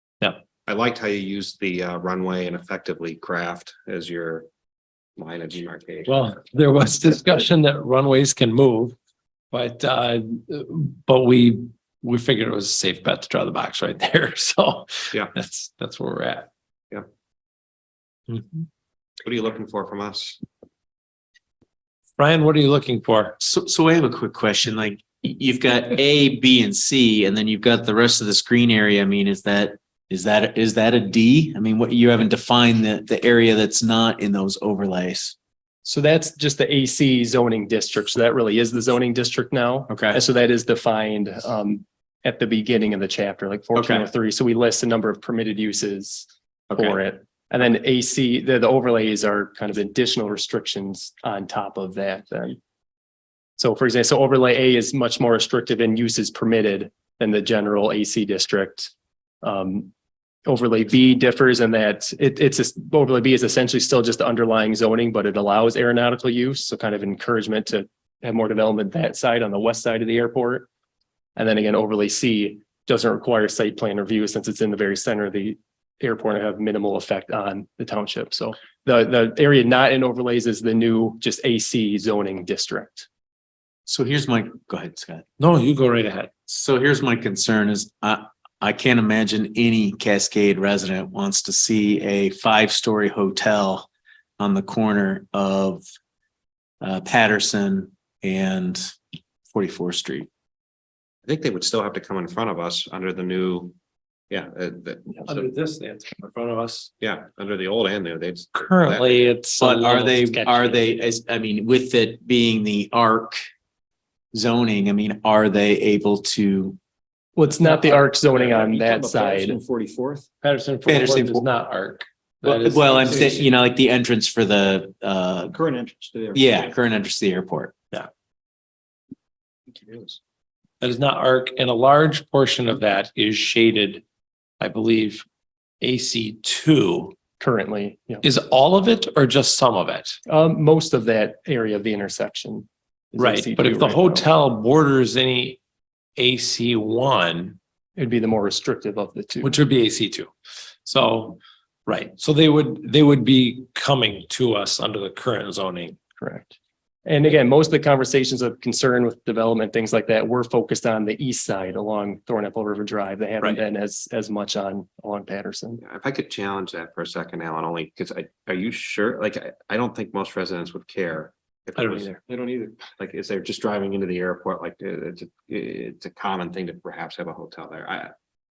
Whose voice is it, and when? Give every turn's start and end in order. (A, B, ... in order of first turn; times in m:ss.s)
0:00.6-0:04.4 A
0:05.2-0:06.3 A
0:06.1-0:09.0 B
0:09.5-0:16.5 B
0:18.3-0:18.6 B
0:19.2-0:20.4 A
0:22.2-0:23.4 B
0:23.4-0:35.4 C
0:35.8-0:52.6 D
0:39.9-0:40.2 C
0:43.7-0:44.1 C
0:46.7-0:47.0 C
0:53.6-0:58.9 D
0:59.4-0:59.9 D
1:00.4-1:10.7 D
1:11.4-1:23.1 D
1:23.8-1:25.2 C
1:25.4-1:26.3 B
1:26.5-1:35.8 C
1:36.8-1:38.9 C
1:39.5-1:40.3 C
1:41.2-1:43.7 A
1:44.3-1:45.5 A
1:45.2-1:46.9 B
1:47.0-1:49.4 A
1:48.5-1:50.9 B
1:49.6-1:53.4 C
1:54.3-1:56.8 C
1:57.4-1:59.6 D
1:57.6-1:58.0 B
1:58.3-2:00.3 A
2:00.4-2:03.5 B
2:00.9-2:01.4 C
2:02.4-2:05.6 C
2:05.5-2:06.7 A
2:06.3-2:07.7 C
2:09.7-2:10.2 A
2:10.8-2:14.0 B
2:14.6-2:15.2 B
2:15.8-2:17.2 B
2:17.4-2:18.2 D
2:18.2-2:20.2 B
2:20.3-2:24.2 D
2:23.2-2:25.6 B
2:26.2-2:27.6 B
2:28.0-2:29.6 D
2:29.4-2:30.3 B
2:30.8-2:36.0 B
2:36.2-2:45.8 D
2:45.8-2:58.1 A
2:51.8-2:52.2 B